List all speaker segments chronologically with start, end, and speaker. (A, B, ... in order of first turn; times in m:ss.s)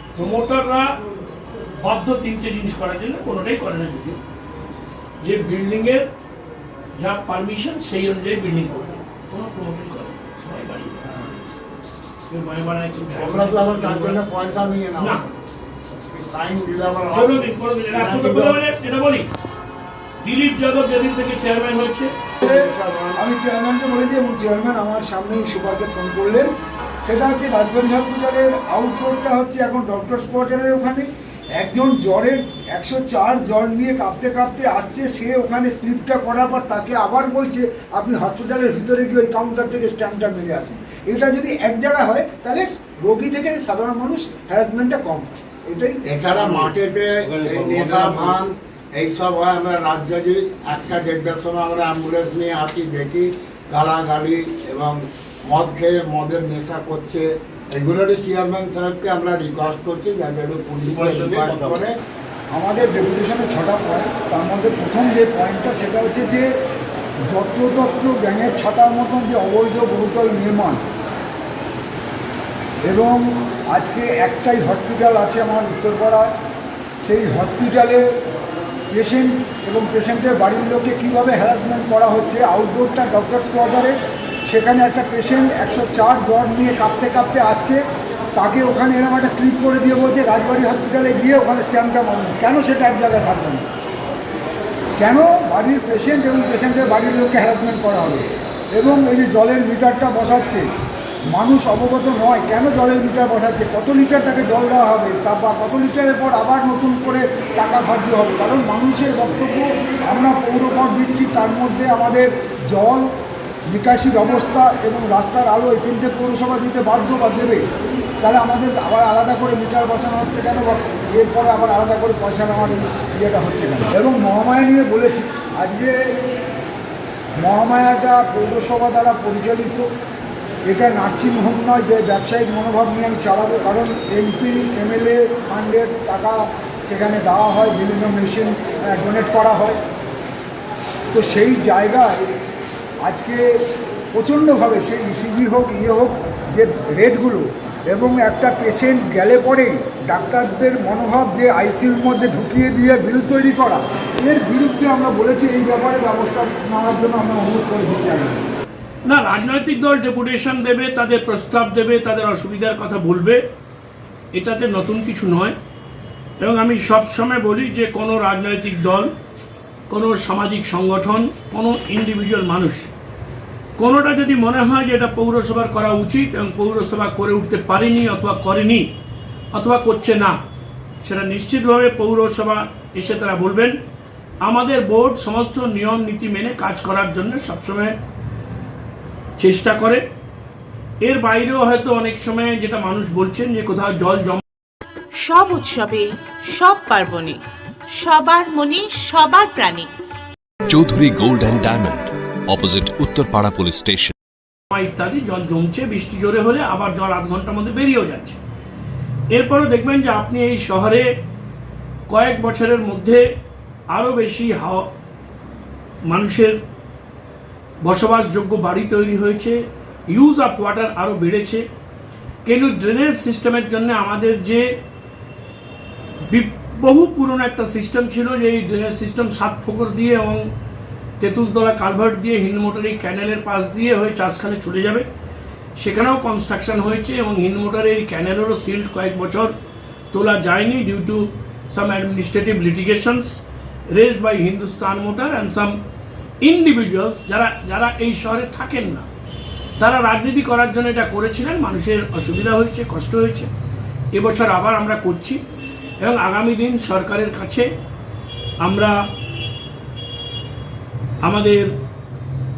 0:00.2-0:00.9 A
0:01.8-0:04.2 A
0:05.2-0:06.1 A
0:07.0-0:11.0 A
0:12.3-0:14.2 A
0:13.1-0:15.2 B
0:15.0-0:15.2 A
0:16.1-0:18.6 B
0:17.1-0:19.3 A
0:20.2-0:22.2 A
0:22.4-0:23.2 B
0:22.4-0:26.5 C
0:27.0-0:46.0 C
0:46.1-1:02.0 B
1:02.5-1:06.5 C
1:07.3-1:10.8 C
1:12.8-1:16.3 C
1:17.0-1:18.0 C
1:18.9-1:23.9 C
1:24.5-1:27.8 C
1:28.3-1:33.7 C
1:35.0-1:40.6 C
1:41.3-1:53.0 C
1:53.7-1:57.6 C
1:58.2-2:06.0 C
2:07.4-2:09.9 C
2:10.6-2:19.8 C
2:21.1-2:22.3 C
2:23.0-2:23.5 C
2:24.1-2:38.4 C
2:39.0-2:43.4 A
2:44.3-2:45.6 A
2:46.4-2:49.1 A
2:49.9-2:52.9 A
2:53.8-2:58.9 A
2:59.5-3:00.4 A
3:01.0-3:03.8 A
3:04.4-3:08.0 A
3:09.4-3:10.0 A
3:11.0-3:14.4 A
3:15.1-3:19.9 D
3:20.6-3:24.1 E
3:24.7-3:28.4 A
3:29.3-3:31.1 A
3:32.1-3:33.2 A
3:33.9-3:34.9 A
3:36.0-3:36.6 A
3:37.8-3:41.6 A
3:42.4-3:44.7 A
3:46.3-3:50.5 A
3:51.2-3:55.1 A
3:55.8-3:59.5 A
4:00.1-4:05.8 A
4:06.4-4:09.1 A
4:09.8-4:13.5 A
4:14.1-4:15.4 A
4:16.0-4:17.7 A
4:18.6-4:19.0 A
4:21.2-4:21.7 A